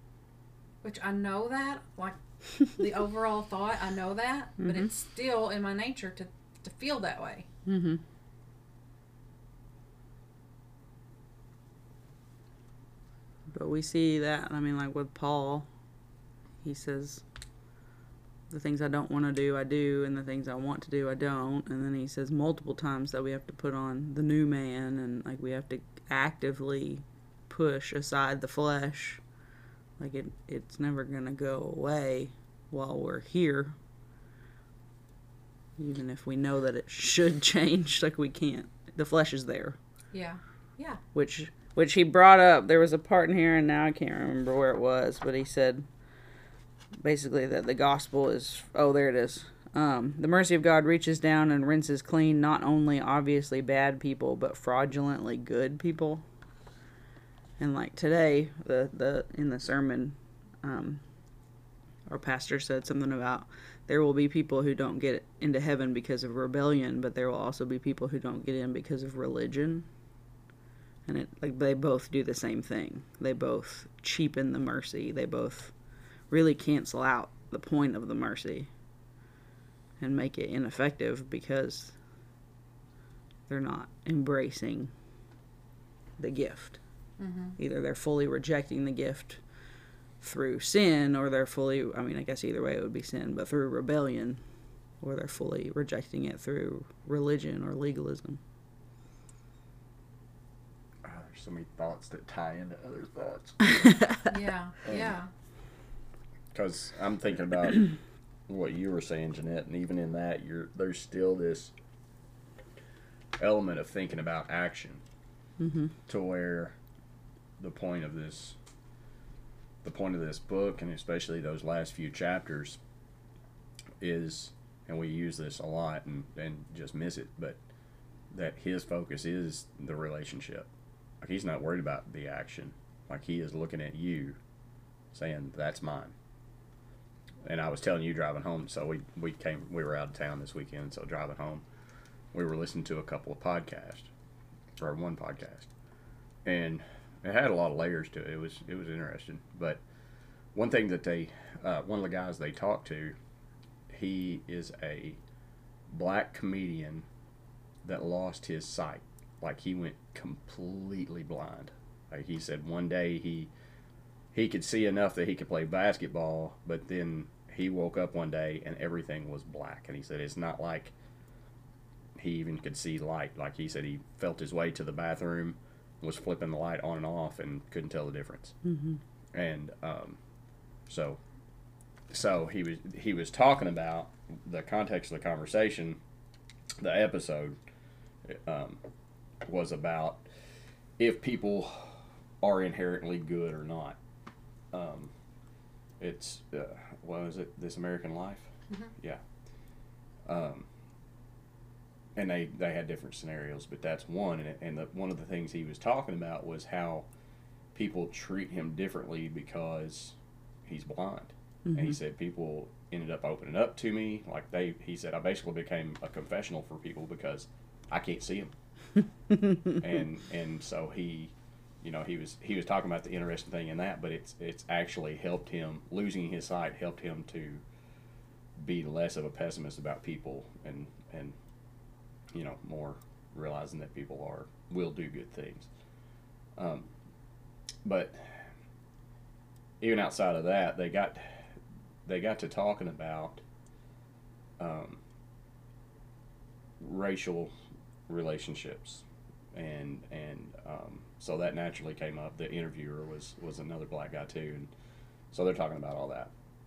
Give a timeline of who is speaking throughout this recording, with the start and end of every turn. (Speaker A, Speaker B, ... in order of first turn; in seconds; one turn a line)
Speaker A: 0.8-7.5
Speaker B: 4.6-4.9
Speaker B: 7.7-8.0
Speaker B: 13.5-15.7
Speaker B: 16.6-17.2
Speaker B: 18.5-29.2
Speaker B: 30.0-33.8
Speaker B: 35.8-39.8
Speaker A: 40.1-41.0
Speaker B: 41.1-45.9
Speaker B: 47.0-56.2
Speaker B: 57.6-61.0
Speaker B: 62.1-69.9
Speaker B: 71.0-75.7
Speaker B: 76.3-78.7
Speaker B: 80.0-81.9
Speaker B: 83.5-84.9
Speaker B: 86.2-86.8
Speaker A: 87.2-87.6
Speaker B: 87.6-89.4
Speaker B: 90.2-94.4
Speaker B: 95.0-98.4
Speaker C: 101.0-104.0
Speaker A: 104.3-105.3
Speaker C: 104.9-105.1
Speaker C: 106.5-107.9
Speaker C: 108.5-111.7
Speaker C: 113.4-115.0
Speaker B: 115.6-115.9
Speaker C: 116.1-116.8
Speaker C: 117.6-118.6
Speaker C: 119.8-122.8
Speaker C: 124.0-127.6
Speaker C: 128.3-130.7
Speaker C: 131.2-134.4
Speaker C: 135.1-136.1
Speaker C: 137.4-141.6
Speaker C: 142.3-144.1
Speaker C: 144.8-145.7
Speaker C: 146.4-149.8
Speaker C: 150.5-153.1
Speaker C: 153.9-155.2
Speaker C: 155.9-157.1
Speaker C: 157.8-163.5
Speaker C: 164.3-170.9
Speaker C: 172.2-178.6
Speaker B: 178.6-179.0
Speaker C: 179.3-180.2
Speaker C: 180.9-181.2
Speaker C: 182.1-186.0
Speaker C: 186.8-187.6
Speaker C: 188.2-188.8
Speaker C: 189.4-190.2
Speaker C: 191.0-194.0
Speaker C: 194.7-195.1
Speaker C: 196.0-199.2
Speaker C: 200.2-200.7
Speaker C: 202.2-207.1
Speaker C: 207.7-218.5
Speaker B: 211.7-211.9
Speaker B: 219.3-219.6
Speaker C: 219.8-227.6
Speaker C: 228.6-231.3
Speaker C: 232.3-235.7
Speaker C: 236.6-236.9
Speaker C: 237.8-238.5
Speaker C: 239.8-243.4
Speaker C: 244.6-245.0
Speaker C: 246.8-247.5
Speaker C: 248.1-254.7
Speaker C: 255.3-256.3